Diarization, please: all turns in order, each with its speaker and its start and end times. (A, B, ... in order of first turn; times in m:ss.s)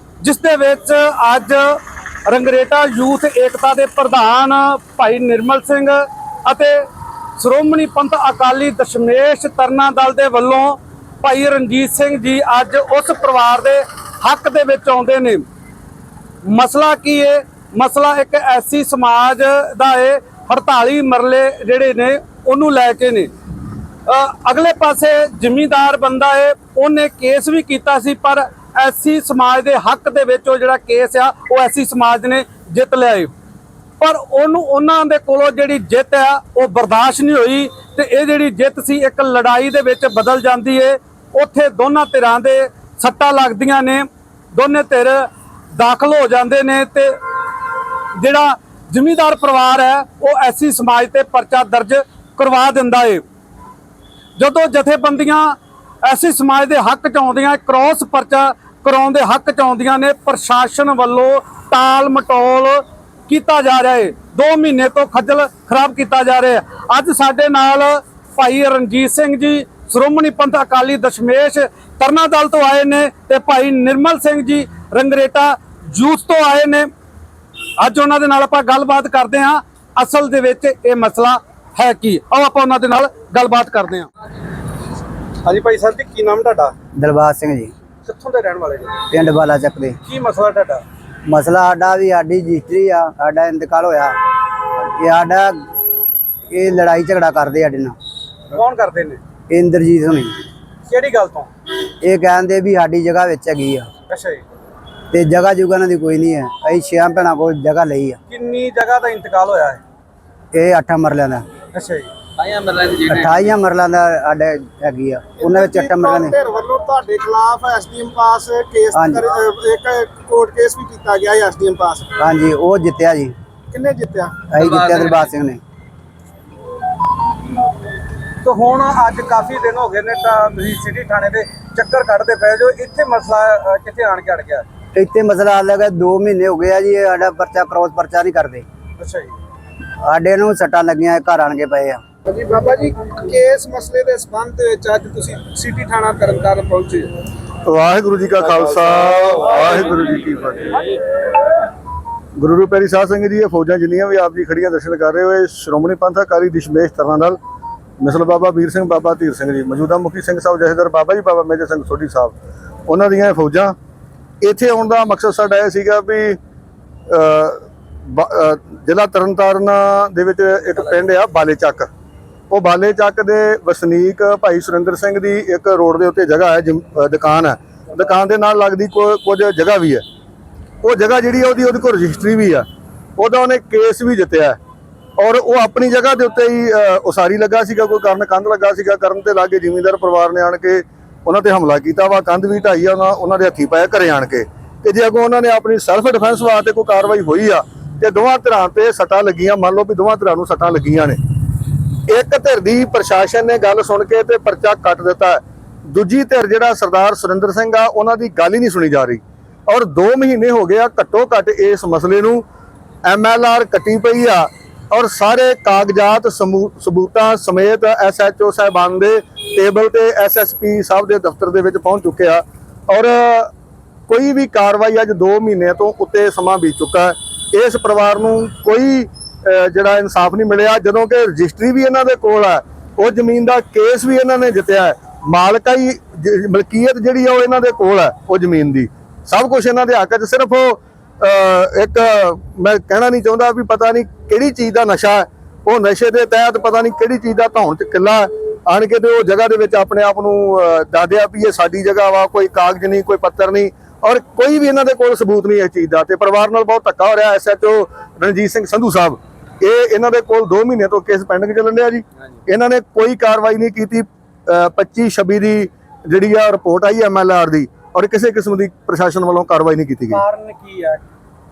0:00.2-0:06.8 A
0:07.4-0:15.4 A
0:16.4-0:23.3 A
0:24.0-0:33.3 A
0:34.0-0:47.2 A
0:48.1-0:53.2 A
0:54.4-1:16.9 A
1:17.8-1:24.1 A
1:25.4-1:26.7 A
1:27.0-1:27.7 B
1:28.0-1:29.1 A
1:29.1-1:30.0 B
1:30.0-1:30.8 A
1:31.2-1:34.2 B
1:34.8-1:35.6 B
1:36.5-1:38.0 B
1:38.5-1:39.2 A
1:39.5-1:40.4 B
1:40.9-1:41.5 A
1:42.0-1:43.9 B
1:44.1-1:44.4 A
1:45.1-1:48.2 B
1:48.3-1:49.8 A
1:50.5-1:51.5 B
1:51.7-1:52.1 A
1:53.0-1:56.4 B
1:55.4-2:02.1 C
1:58.9-1:59.2 B
2:02.2-2:03.3 B
2:03.7-2:04.5 C
2:04.5-2:05.6 B
2:08.4-2:14.6 A
2:14.9-2:18.6 B
2:19.0-2:19.3 A
2:20.0-2:22.0 B
2:22.3-2:27.1 C
2:27.6-2:30.9 D
2:32.4-2:37.4 D
2:38.0-2:42.3 D
2:42.9-2:43.7 D
2:44.4-2:46.4 D
2:47.1-2:51.9 D
2:52.5-3:00.0 D
3:00.8-3:02.6 D
3:03.2-3:04.6 D
3:05.2-3:21.2 D
3:22.1-3:32.4 D
3:33.0-3:43.5 D
3:44.1-4:30.2 D
4:30.1-4:31.0 A